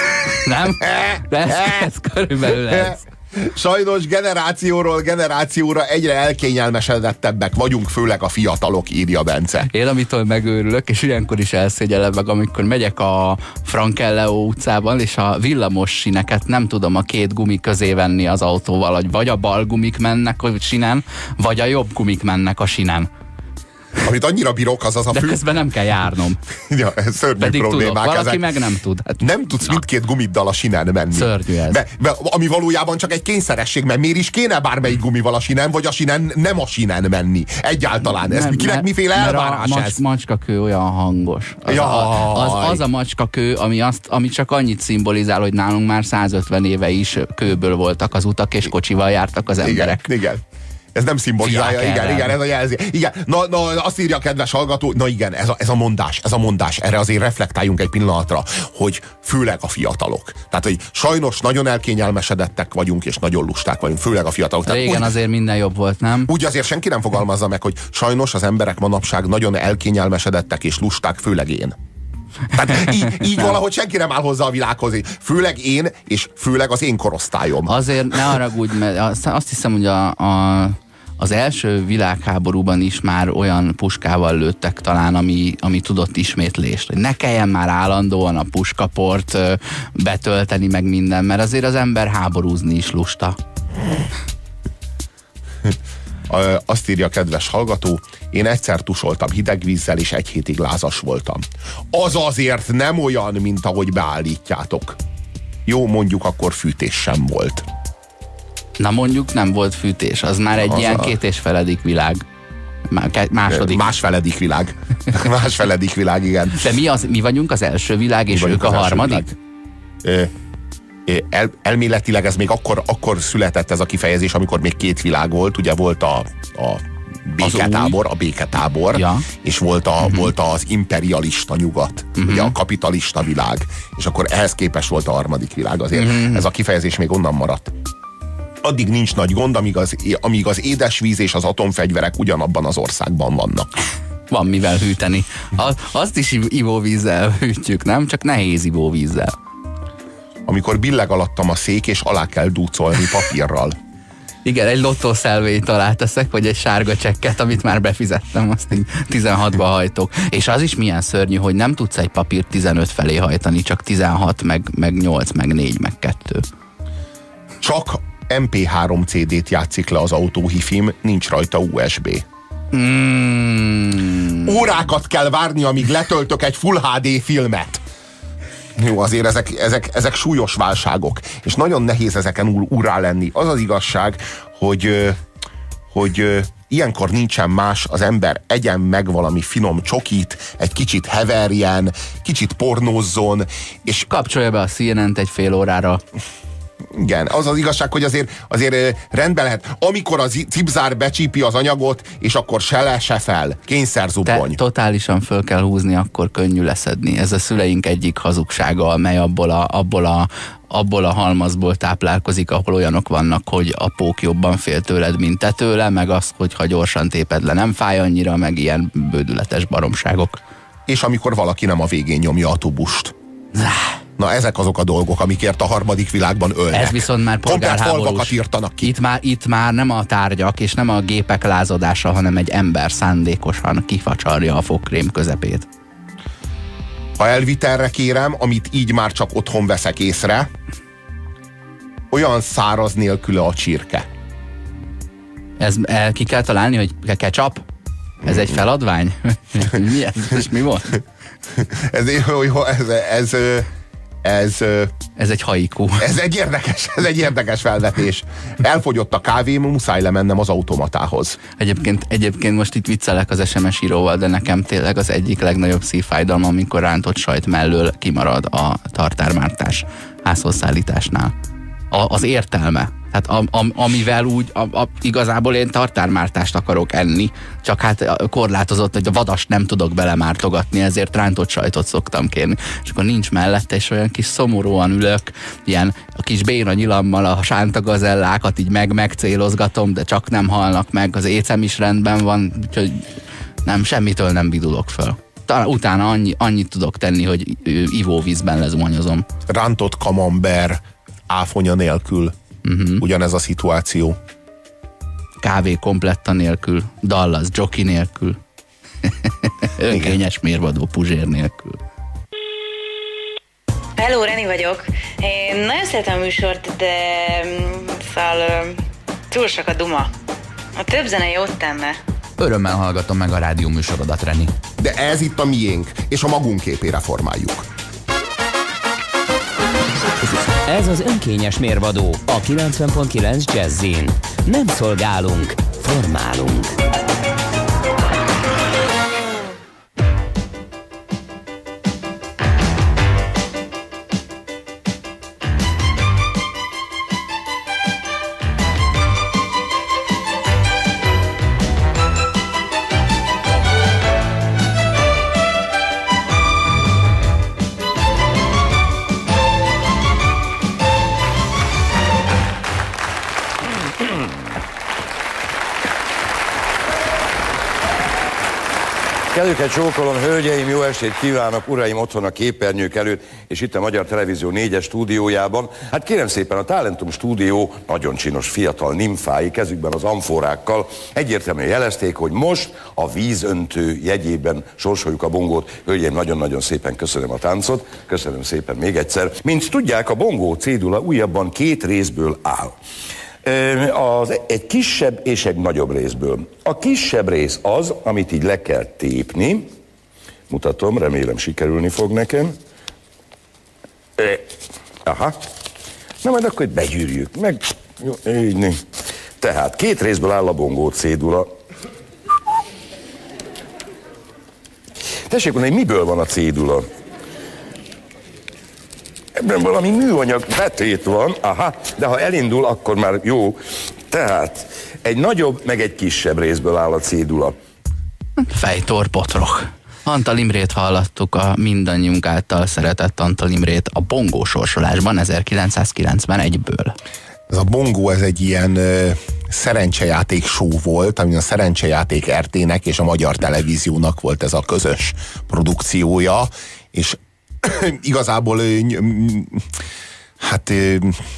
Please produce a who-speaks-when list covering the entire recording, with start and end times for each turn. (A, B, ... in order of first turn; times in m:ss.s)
0:00.3-0:03.0 A
0:00.8-0:01.8 B
0:02.7-0:09.7 B
0:09.7-0:23.1 A
0:24.0-0:25.4 B
0:25.1-0:26.4 A
0:26.7-0:28.4 B
0:27.4-0:29.8 A
0:29.2-0:40.0 B
0:31.1-0:31.8 A
0:38.0-0:50.0 A
0:41.7-0:42.8 B
0:49.6-0:50.4 B
0:51.0-1:05.1 B
0:51.4-0:52.4 A
1:04.7-1:06.3 A
1:06.3-1:11.8 B
1:12.5-1:17.7 B
1:12.7-1:13.6 A
1:17.7-1:33.4 A
1:36.3-1:45.0 B
1:45.7-1:47.7 B
1:48.8-1:52.2 A
1:50.6-1:51.1 B
1:52.9-1:53.9 A
1:53.5-1:56.6 B
1:56.6-1:59.3 A
1:58.3-1:59.3 B
2:00.0-2:00.3 B
2:01.1-2:17.7 B
2:07.4-2:08.0 A
2:08.9-2:09.3 A
2:10.0-2:10.3 A
2:12.2-2:12.6 A
2:15.9-2:16.5 A
2:18.6-2:23.7 B
2:24.3-2:29.4 A
2:30.5-2:33.8 B
2:34.4-2:46.4 A
2:47.6-2:52.2 B
2:52.7-2:54.5 A
2:54.4-2:57.8 B
2:58.8-3:05.2 B
3:05.9-3:14.1 B
3:14.1-3:16.0 A
3:16.9-3:24.6 B
3:24.3-3:40.4 A
3:40.9-3:43.1 B
3:43.6-3:44.0 A
3:44.2-3:48.9 B
3:46.7-3:55.7 A
3:57.2-4:00.5 B
4:02.1-4:04.1 B
4:05.6-4:07.6 A
4:08.2-4:11.0 A
4:11.6-4:13.7 B
4:14.2-4:15.0 B
4:15.2-4:16.0 A
4:16.0-4:21.4 B
4:21.6-4:31.3 A
4:31.9-4:53.1 A
4:53.7-4:59.2 A
4:59.5-5:02.3 B
5:02.6-5:03.0 A
5:03.0-5:04.2 B
5:05.4-5:08.4 A
5:09.0-5:11.8 A
5:09.9-5:10.2 B
5:14.0-5:20.1 C
5:20.8-5:22.0 C
5:22.4-5:24.6 D
5:24.8-5:27.6 B
5:30.2-5:36.8 E
6:09.3-6:32.8 F
6:33.4-6:39.7 F
6:40.5-6:42.6 F
6:44.2-6:44.5 F
6:45.0-6:45.4 F
6:46.2-6:48.8 F
6:49.4-6:51.5 F
6:55.3-6:56.9 F
6:59.4-7:07.6 F
7:08.4-7:17.0 A
7:17.5-7:29.6 B
7:30.4-7:31.2 B